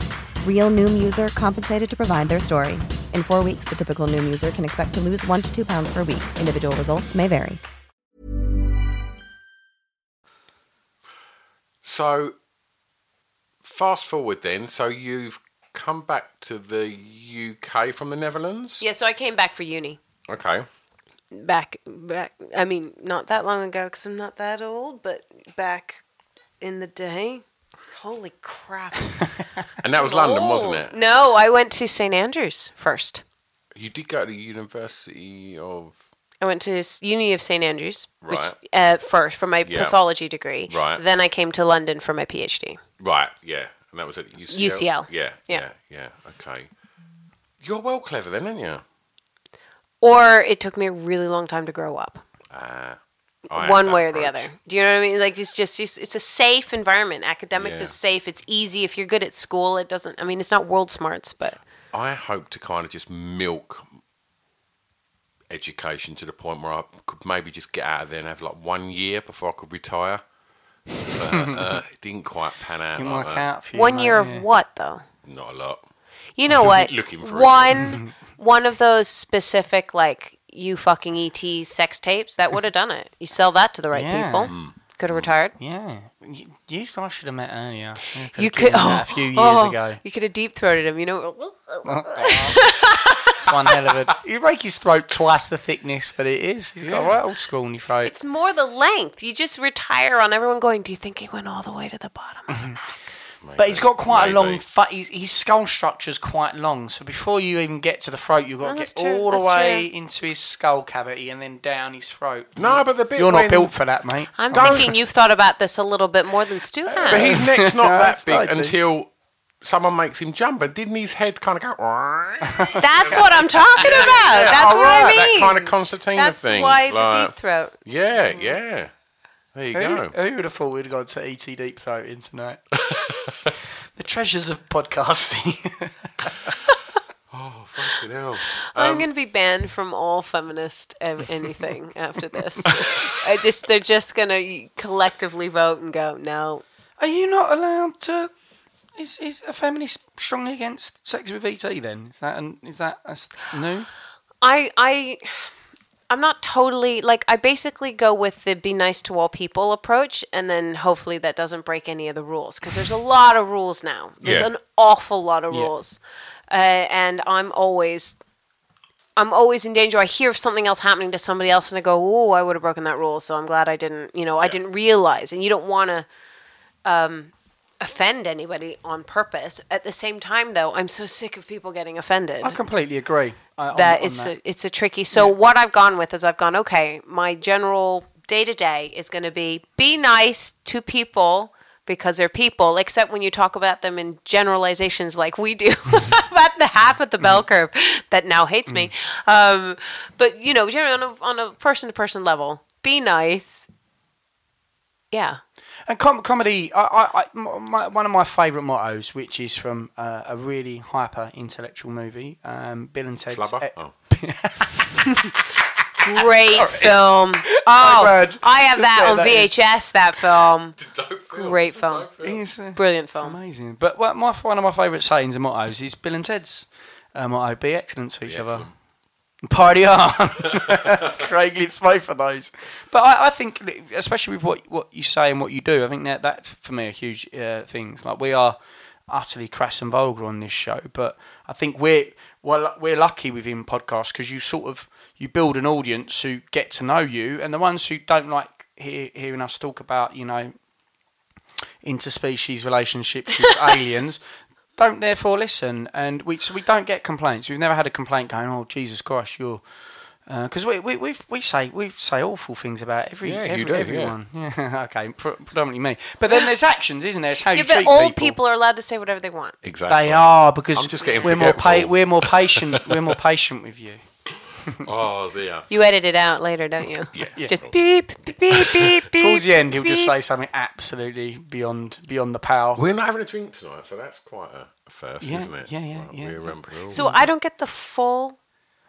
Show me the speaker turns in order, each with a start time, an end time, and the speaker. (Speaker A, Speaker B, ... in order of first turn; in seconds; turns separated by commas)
Speaker A: 0.4-7.6, Speaker B: 11.8-12.3, Speaker B: 13.6-18.8, Speaker C: 18.8-20.0, Speaker B: 20.3-20.7, Speaker C: 21.3-26.0, Speaker C: 26.6-29.2, Speaker B: 29.8-30.9, Speaker C: 29.9-33.2, Speaker B: 33.7-36.0, Speaker C: 36.4-42.8, Speaker B: 38.2-38.5, Speaker B: 39.6-40.0, Speaker B: 40.7-41.0, Speaker B: 43.0-46.7, Speaker C: 44.5-45.6, Speaker B: 47.6-48.8, Speaker C: 50.0-52.2, Speaker B: 52.5-53.0, Speaker B: 53.5-54.5, Speaker C: 53.5-61.6, Speaker B: 57.5-57.9, Speaker B: 61.9-63.8, Speaker B: 65.5-70.2, Speaker B: 71.0-73.4, Speaker D: 71.2-71.7, Speaker D: 72.9-74.5, Speaker C: 73.7-75.0, Speaker B: 75.2-75.8, Speaker C: 76.4-85.5, Speaker B: 76.5-78.0, Speaker D: 83.9-84.5, Speaker B: 84.5-85.3, Speaker D: 85.6-90.0, Speaker C: 88.3-93.2, Speaker D: 91.8-92.7, Speaker D: 93.4-98.1, Speaker B: 96.8-97.2, Speaker C: 98.0-102.5, Speaker D: 102.5-102.8, Speaker B: 103.4-104.6, Speaker D: 103.6-114.8, Speaker C: 108.6-109.9, Speaker B: 112.5-113.7, Speaker C: 114.4-117.4, Speaker B: 114.5-114.9, Speaker B: 116.9-119.1, Speaker D: 117.1-118.7, Speaker B: 119.6-127.3, Speaker D: 122.5-123.2, Speaker C: 122.8-127.7, Speaker B: 127.8-128.9, Speaker B: 129.5-130.1, Speaker D: 129.7-132.6, Speaker B: 132.8-133.4, Speaker D: 134.0-136.3, Speaker B: 137.3-139.1, Speaker C: 138.7-146.6, Speaker D: 147.0-148.3, Speaker D: 148.9-153.9, Speaker C: 154.4-155.5, Speaker C: 156.1-168.2, Speaker B: 164.2-164.5, Speaker C: 169.2-176.1, Speaker C: 176.8-182.6, Speaker D: 182.4-184.3, Speaker C: 183.7-203.7, Speaker C: 205.1-205.4, Speaker D: 205.9-215.4, Speaker B: 213.3-213.9, Speaker C: 216.0-220.8, Speaker D: 216.5-219.6, Speaker B: 220.8-222.4, Speaker C: 221.3-223.4, Speaker D: 222.2-228.7, Speaker B: 228.2-228.7, Speaker D: 229.4-238.6, Speaker D: 239.1-250.5, Speaker D: 251.8-254.2, Speaker D: 254.8-259.6, Speaker D: 260.3-268.4, Speaker B: 263.2-264.2, Speaker C: 267.5-269.6, Speaker B: 269.6-273.1, Speaker D: 269.9-274.0, Speaker C: 271.0-271.4, Speaker B: 274.9-275.7, Speaker C: 275.7-280.1, Speaker B: 277.1-277.7, Speaker D: 279.1-282.8, Speaker B: 282.7-287.1, Speaker D: 285.2-287.3, Speaker C: 286.9-288.4